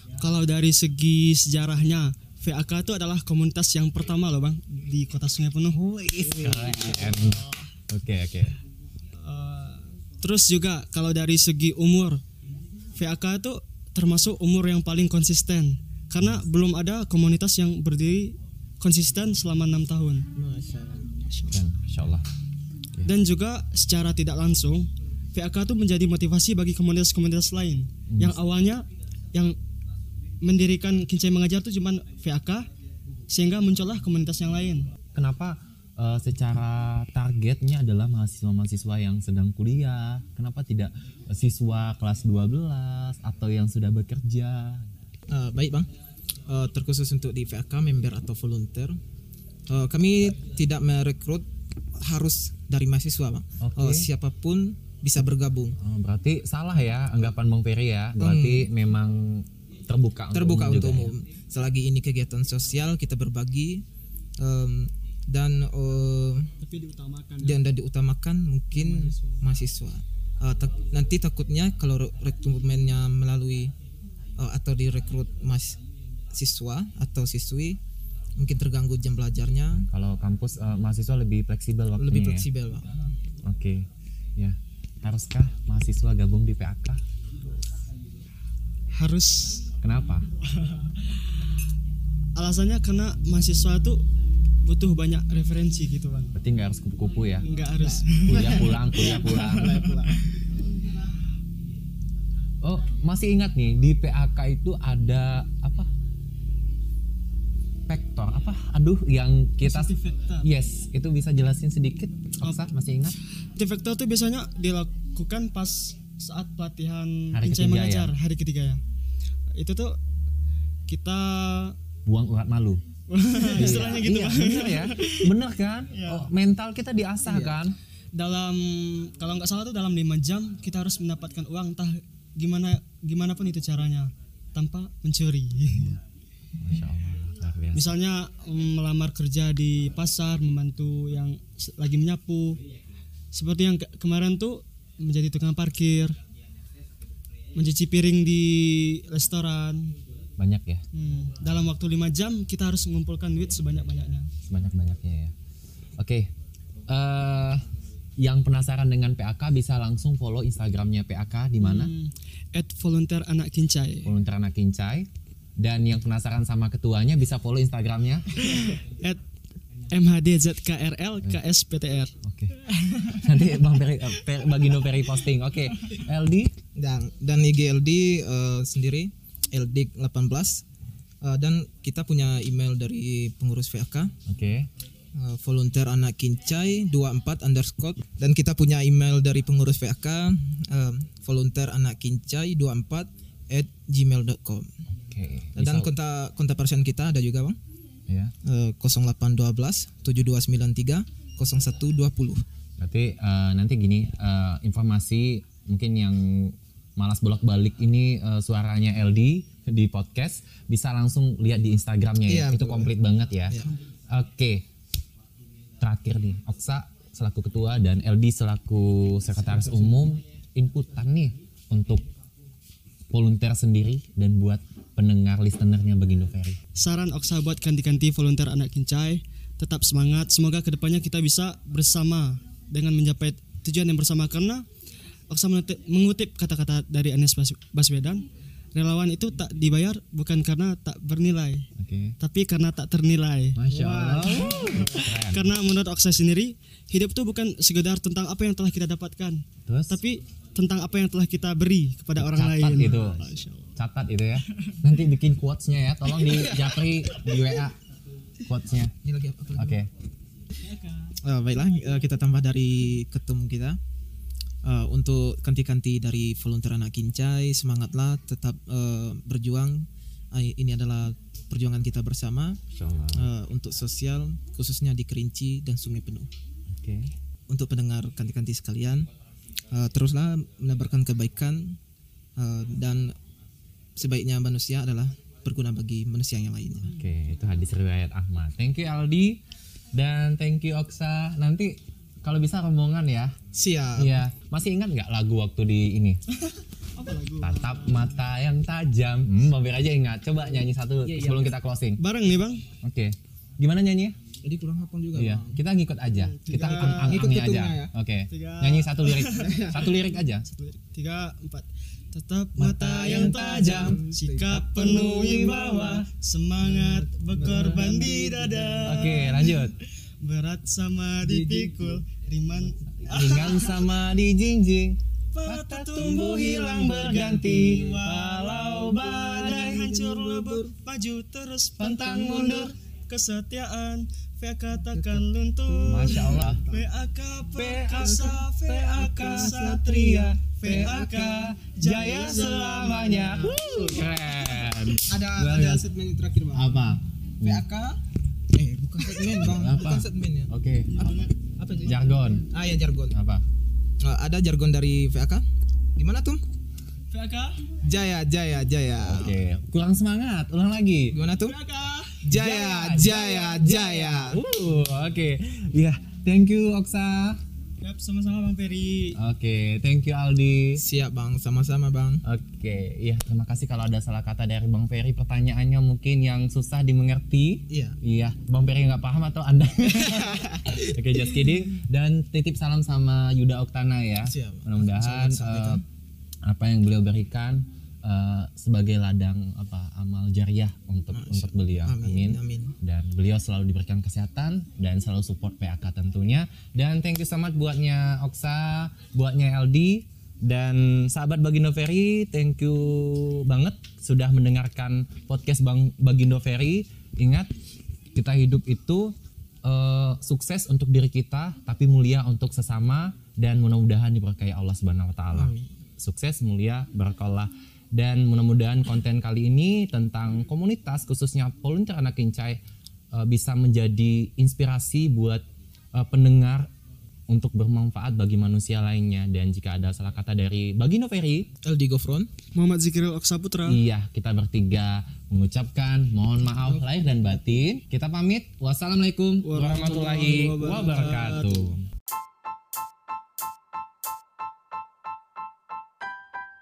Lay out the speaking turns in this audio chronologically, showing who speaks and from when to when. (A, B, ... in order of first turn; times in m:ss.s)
0:00.2-0:05.8 A
0:05.7-0:08.6 B
0:06.4-0:07.1 C
0:09.2-0:12.2 A
0:13.0-0:20.2 A
0:20.3-0:21.2 C
0:21.5-0:22.2 B
0:23.0-0:29.6 A
0:28.1-0:28.4 B
0:30.4-0:32.7 A
0:33.3-0:34.9 A
0:35.1-0:44.9 B
0:45.3-0:45.9 C
0:46.4-0:49.0 C
0:49.7-0:55.8 C
0:53.6-0:54.1 B
0:55.8-1:01.1 B
0:58.2-0:58.7 C
1:00.3-1:03.8 C
1:04.4-1:06.5 C
1:06.6-1:07.6 A
1:07.4-1:13.7 C
1:08.7-1:09.5 A
1:14.4-1:15.8 C
1:16.3-1:17.8 C
1:18.4-1:19.9 C
1:19.9-1:22.4 B
1:22.0-1:23.0 C
1:23.4-1:27.0 B
1:28.9-1:29.6 A
1:29.8-1:30.3 B
1:30.5-1:31.4 A
1:32.4-1:34.0 A
1:34.6-1:36.3 A
1:36.3-1:37.5 B
1:37.4-1:40.3 A
1:37.8-1:40.1 C
1:38.2-1:39.8 B
1:42.6-1:45.9 B
1:47.9-1:49.9 B
1:49.6-1:50.4 A
1:50.4-1:53.2 B
1:53.6-1:58.8 A
1:57.3-1:58.1 B
1:59.5-2:00.0 A
2:00.9-2:01.7 A
2:02.0-2:02.8 B
2:03.1-2:05.3 A
2:03.6-2:07.8 B
2:03.6-2:04.0 C
2:05.9-2:06.3 A
2:07.2-2:07.6 C
2:08.1-2:16.0 A
2:15.7-2:16.0 B
2:16.6-2:18.0 B
2:17.7-2:22.6 A
2:23.3-2:26.2 A
2:27.5-2:29.9 A
2:30.4-2:30.8 B
2:30.9-2:34.3 A
2:34.4-2:35.3 B
2:36.0-2:36.3 B
2:36.9-2:37.6 B
2:38.2-2:41.9 B
2:41.6-2:44.1 A
2:44.0-2:48.4 B
2:48.4-2:49.2 A
2:49.9-2:52.1 A
2:52.2-2:56.5 B
2:52.6-2:53.3 A
2:56.7-3:00.6 C
3:01.2-3:04.1 C
3:04.2-3:04.7 B
3:05.1-3:14.7 C
3:14.9-3:15.9 B
3:15.6-3:17.6 C
3:18.1-3:18.3 B
3:18.4-3:22.4 C
3:22.8-3:34.6 B
3:32.2-3:32.9 C
3:35.8-3:42.1 B
3:39.6-3:40.0 C
3:43.1-3:46.6 B
3:46.8-3:54.6 A
3:55.3-3:58.2 A
3:58.7-4:01.7 A
4:01.8-4:02.2 B
4:02.2-4:13.7 A
4:03.6-4:05.5 B
4:09.6-4:10.0 B
4:12.2-4:17.8 B
4:16.3-4:16.8 C
4:18.4-4:18.9 B
4:19.0-4:19.8 C
4:19.5-4:19.9 B
4:20.7-4:21.1 A
4:21.2-4:23.8 C
4:24.6-4:32.6 C
4:32.7-4:33.3 B
4:33.1-4:36.3 C
4:36.7-4:37.1 B
4:37.5-4:39.1 C
4:39.7-4:41.8 C
4:42.4-4:43.2 C
4:43.9-4:46.9 C
4:46.8-4:49.4 B
4:49.9-4:53.4 B
4:53.5-4:54.2 C
4:54.0-4:56.2 B
4:56.4-4:58.1 A
4:57.4-5:02.0 B
5:01.0-5:01.6 C
5:02.0-5:02.6 A
5:02.8-5:04.2 B
5:04.4-5:05.6 C
5:05.1-5:10.4 B
5:06.1-5:07.3 A
5:06.5-5:07.9 C
5:08.3-5:23.9 A
5:09.3-5:09.8 C
5:12.6-5:16.1 B
5:12.8-5:14.7 C
5:16.6-5:19.0 C
5:18.8-5:19.7 B
5:21.2-5:22.0 C
5:23.0-5:29.9 B
5:25.3-5:43.6 A
5:29.3-5:30.7 C
5:31.8-5:32.7 B
5:34.9-5:36.8 C
5:35.8-5:36.6 B
5:37.5-5:45.8 B
5:37.9-5:38.4 C
5:38.9-5:41.0 C
5:42.3-5:43.5 C
5:45.0-5:46.9 C
5:46.5-5:47.6 B
5:47.4-5:48.0 C
5:48.5-5:53.1 C
5:49.3-5:50.9 B
5:50.9-5:51.3 A
5:51.8-5:52.5 B
5:53.1-5:53.4 B
5:54.0-5:56.4 C
5:57.1-5:57.6 A
5:57.8-5:59.4 C
5:59.0-6:01.2 B
6:01.1-6:01.6 C
6:01.4-6:02.2 A
6:02.1-6:04.4 C
6:02.3-6:07.4 B
6:07.8-6:09.2 A
6:09.2-6:10.8 B
6:10.8-6:12.2 C
6:12.2-6:25.8 B
6:17.7-6:18.0 C
6:19.8-6:20.8 C
6:24.2-6:25.8 C
6:26.4-6:47.5 B
6:31.1-6:32.8 C
6:48.1-7:02.6 B
6:55.3-6:55.7 C
7:03.1-7:06.7 B
7:07.3-7:11.5 B
7:11.6-7:12.3 C
7:12.5-7:13.8 A
7:13.6-7:21.8 B
7:16.6-7:17.6 C
7:19.4-7:21.7 A